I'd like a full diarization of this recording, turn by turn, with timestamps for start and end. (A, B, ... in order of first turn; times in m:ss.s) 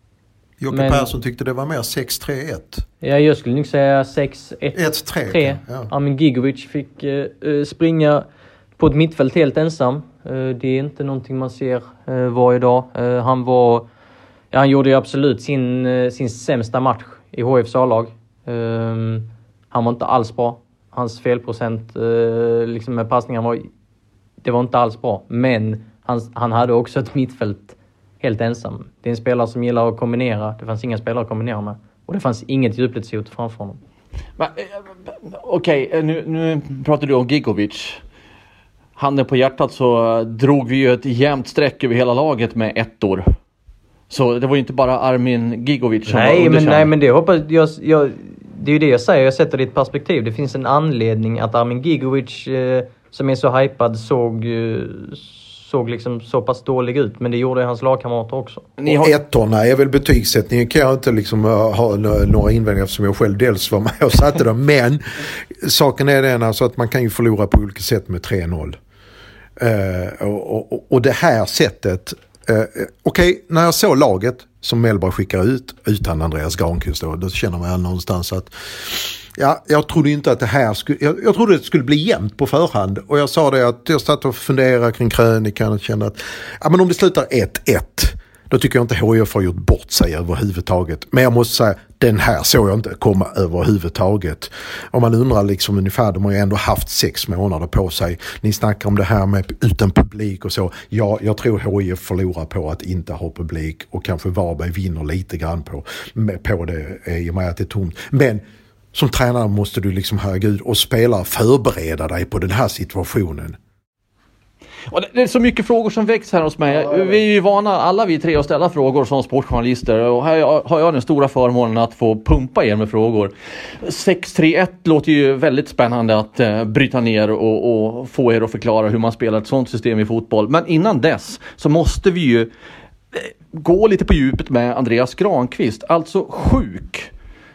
0:00.6-0:02.8 A
0:00.7-0:01.1 B
0:03.0-0:08.2 B
0:04.7-0:05.9 A
0:08.8-0:13.8 B
0:14.5-0:23.7 B
0:24.4-0:33.8 B
0:34.4-0:38.0 C
0:39.0-0:43.3 C
0:44.1-0:46.9 C
0:46.1-0:58.7 B
0:58.8-0:59.1 C
0:58.8-1:08.8 A
1:09.6-1:53.6 A
1:54.9-2:12.5 C
1:56.7-1:57.2 A
2:13.1-2:17.1 C